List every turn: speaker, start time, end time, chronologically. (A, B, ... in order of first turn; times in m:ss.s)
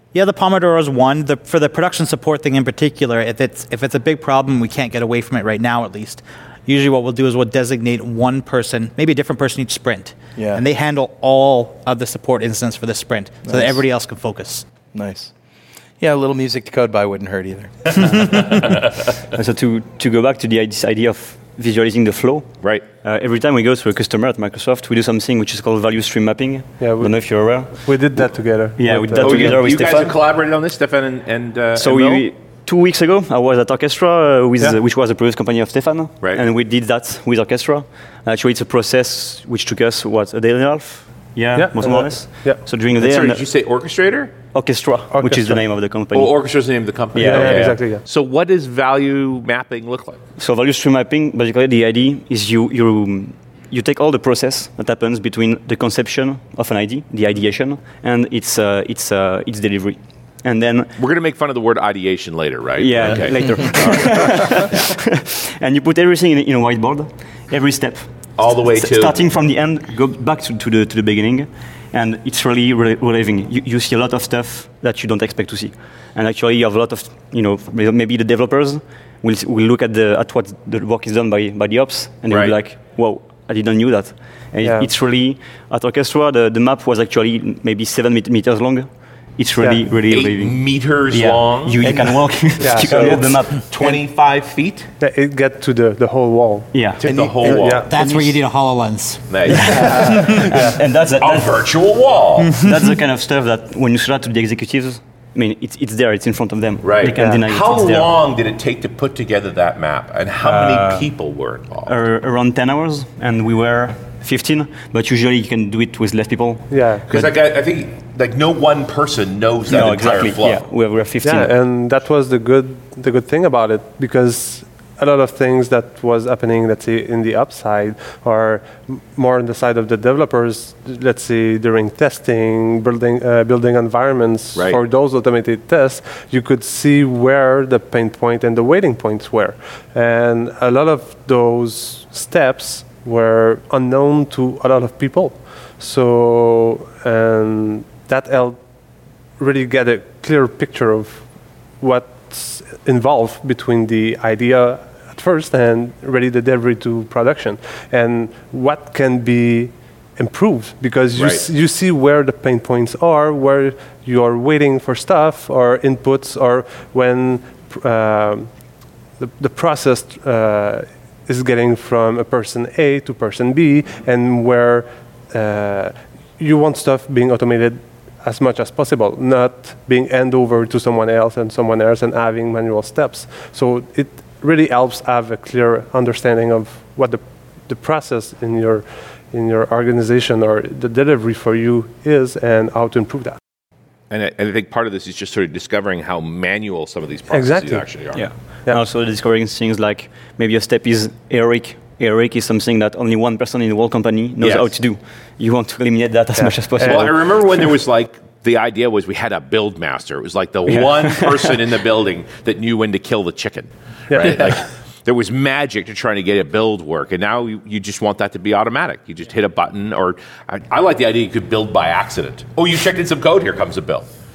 0:00.1-0:14.6 A
0:10.4-0:10.6 B
0:13.4-0:13.8 B
0:14.9-0:15.3 B
0:16.0-0:18.0 B
0:18.5-0:30.2 C
0:26.8-0:30.0 D
0:29.2-0:32.2 E
0:31.7-0:43.4 C
0:41.5-0:42.7 D
0:43.0-0:44.4 E
0:44.5-0:46.3 C
0:45.1-0:45.6 D
0:46.1-0:50.2 E
0:47.1-0:47.8 C
0:47.1-0:48.0 D
0:50.4-1:00.9 C
1:01.0-1:04.9 E
1:02.8-1:34.0 C
1:08.3-1:09.2 E
1:22.3-1:22.5 E
1:24.6-1:24.9 D
1:29.6-1:29.9 D
1:30.1-1:32.1 E
1:32.6-1:33.3 D
1:32.7-1:34.9 E
1:35.0-1:36.8 D
1:36.7-1:38.4 C
1:37.0-1:37.9 E
1:37.0-1:37.4 B
1:37.4-1:37.9 D
1:37.9-1:39.4 A
1:39.3-1:42.6 E
1:39.4-1:41.6 C
1:40.0-1:40.4 A
1:42.5-1:48.1 C
1:46.8-1:51.9 E
1:47.2-1:47.4 D
1:50.4-1:51.1 C
1:51.9-1:57.3 C
1:56.7-1:57.0 D
1:57.1-2:00.7 E
1:59.7-2:01.5 C
2:01.2-3:13.4 D
2:14.5-2:14.8 E
2:41.1-2:41.5 E
3:14.1-3:18.3 E
3:17.3-3:17.9 D
3:18.1-3:27.2 C
3:18.5-3:18.8 D
3:24.4-3:24.7 E
3:26.4-3:27.2 D
3:26.8-3:44.1 E
3:30.8-3:31.5 C
3:34.1-3:34.6 D